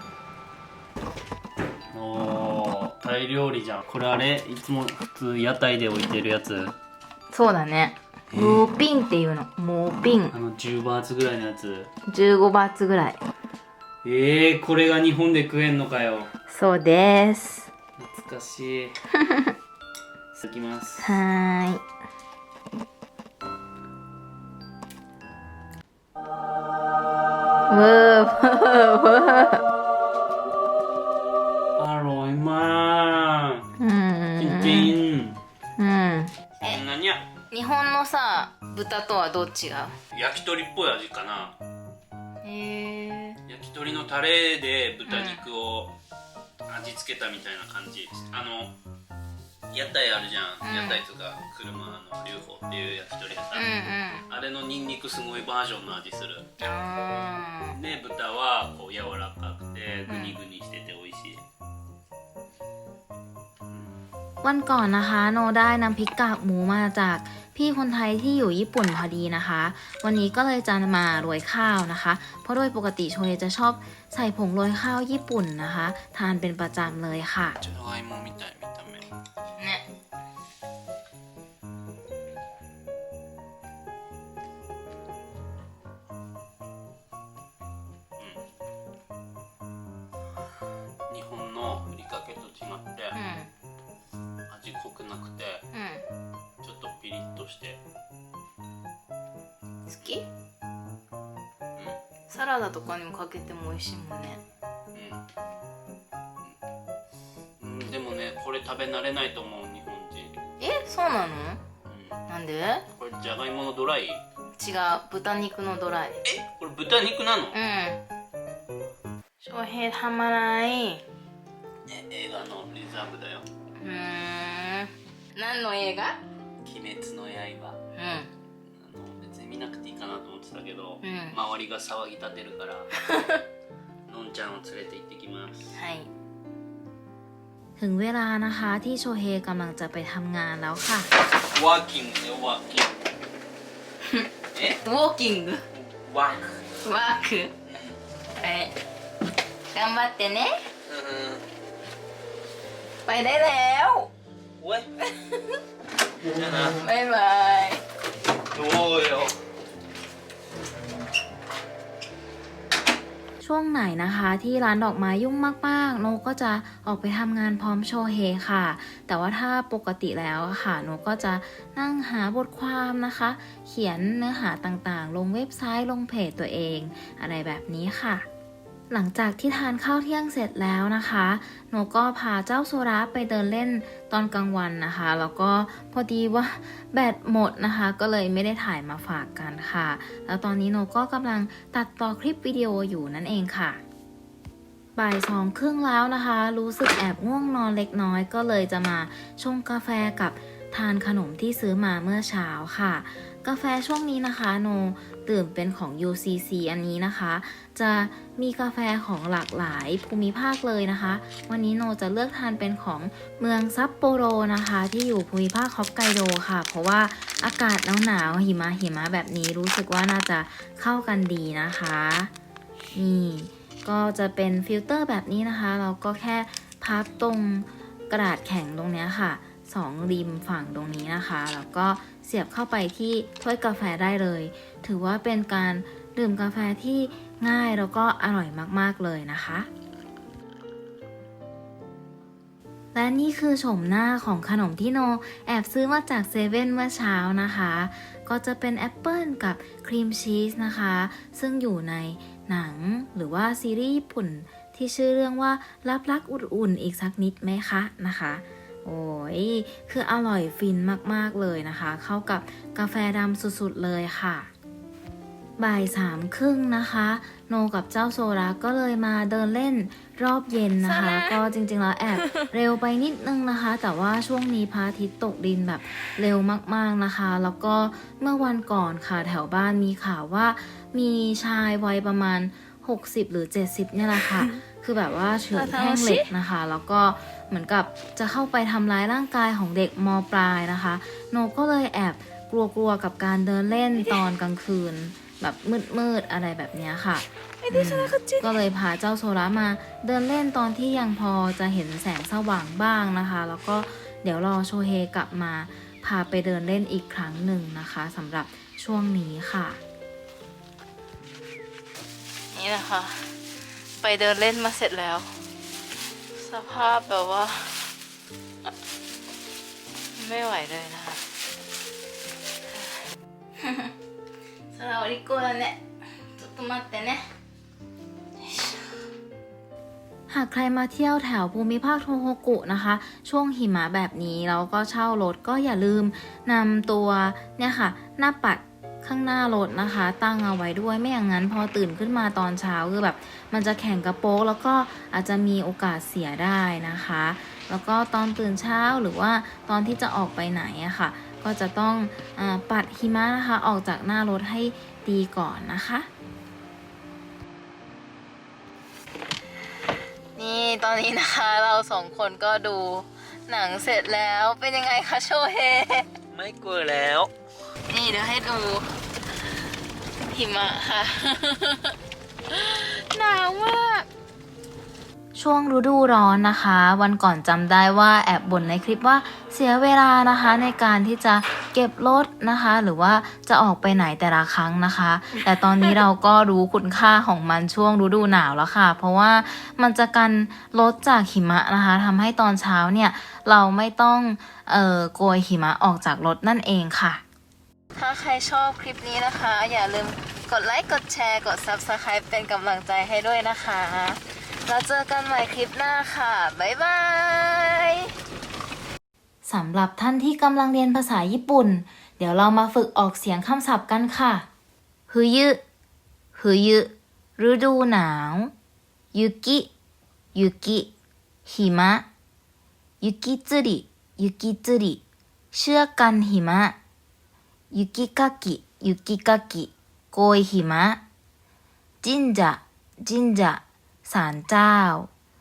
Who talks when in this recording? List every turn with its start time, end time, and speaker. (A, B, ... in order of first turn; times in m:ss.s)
0:01.9-0:06.8 A
0:07.3-0:10.4 B
0:08.3-0:08.6 A
0:10.3-0:11.9 A
0:12.1-0:13.2 B
0:14.0-0:16.3 A
0:16.5-0:17.7 B
0:18.0-0:19.0 A
0:19.2-0:19.5 B
0:20.4-0:21.2 A
0:21.0-0:21.8 B
0:27.7-0:29.6 B
0:31.8-0:33.7 A
0:33.8-0:35.0 B
0:34.4-0:35.4 A
0:35.8-0:36.8 B
0:36.6-0:37.3 A
0:37.5-0:40.0 B
0:40.1-0:41.6 A
0:42.4-0:43.4 B
0:43.4-0:46.0 A
0:45.1-0:45.4 B
0:46.7-0:48.8 A
0:49.7-0:53.7 A
0:50.6-0:51.0 B
0:53.5-0:54.2 B
0:54.3-0:56.5 A
0:56.6-0:57.8 B
0:57.7-1:01.4 A
1:00.1-1:00.4 B
1:03.7-1:04.0 A
1:04.4-1:17.6 C
1:17.6-1:19.1 A
1:19.6-1:19.8 B
1:31.1-1:33.2 A
1:33.2-1:33.5 B
1:34.5-1:35.6 A
1:35.7-1:36.0 B
1:36.6-1:37.8 A
1:39.9-1:40.3 B
1:42.3-1:44.4 B
1:44.9-1:45.2 A
1:47.6-1:50.4 A
1:50.6-1:51.6 B
1:51.9-1:52.2 A
1:52.3-1:52.9 B
1:52.9-1:54.2 A
1:54.6-1:56.2 B
1:56.2-1:57.6 A
1:57.5-1:58.0 B
1:59.4-2:01.0 B
2:01.9-2:03.5 A
2:03.8-2:06.2 B
2:06.6-2:07.8 A
2:08.0-2:08.3 B
2:08.8-2:12.9 A
2:11.0-2:11.4 B
2:13.1-2:13.4 B
2:14.1-2:15.8 A
2:15.8-2:16.1 B
2:17.8-2:21.1 C
2:21.4-2:23.0 A
2:24.5-2:24.8 A
2:24.8-2:25.6 B
2:25.7-2:26.6 A
2:26.8-2:27.5 B
2:27.6-2:28.0 A
2:28.4-2:28.8 B
2:29.7-2:30.6 B
2:30.9-2:31.5 A
2:33.1-2:34.1 B
2:34.6-2:34.9 A
2:35.2-2:35.6 B
2:36.2-2:36.8 A
2:36.7-2:37.8 B
2:38.5-2:39.4 A
2:43.4-2:58.2 C
2:58.9-3:13.8 C
3:15.0-3:42.3 C
3:42.9-3:59.7 C
4:02.9-4:24.5 C
4:25.6-5:09.8 C
4:30.8-4:31.4 B
4:32.2-4:32.5 B
4:45.5-4:46.3 B
4:57.6-4:58.6 B
5:12.5-5:13.3 B
5:14.0-5:15.3 B
5:16.4-5:17.9 B
5:20.2-5:21.2 B
5:23.6-5:23.9 B
5:24.7-5:25.8 B
5:26.4-5:27.3 B
5:28.4-5:29.0 B
5:30.3-5:56.1 C
6:00.4-6:06.1 B
6:06.3-6:07.3 A
6:07.9-6:08.9 B
6:10.3-6:12.0 B
6:12.5-6:14.1 B
6:15.4-6:37.2 C
6:38.0-6:48.1 B
6:49.4-6:54.5 C
6:55.1-6:55.6 C
6:56.4-6:58.5 C
6:59.1-6:59.7 C
7:00.4-7:00.9 C
7:01.5-7:02.1 C
7:03.0-7:05.0 C
7:05.5-7:06.8 C
7:07.7-7:11.0 C
7:12.0-7:15.1 C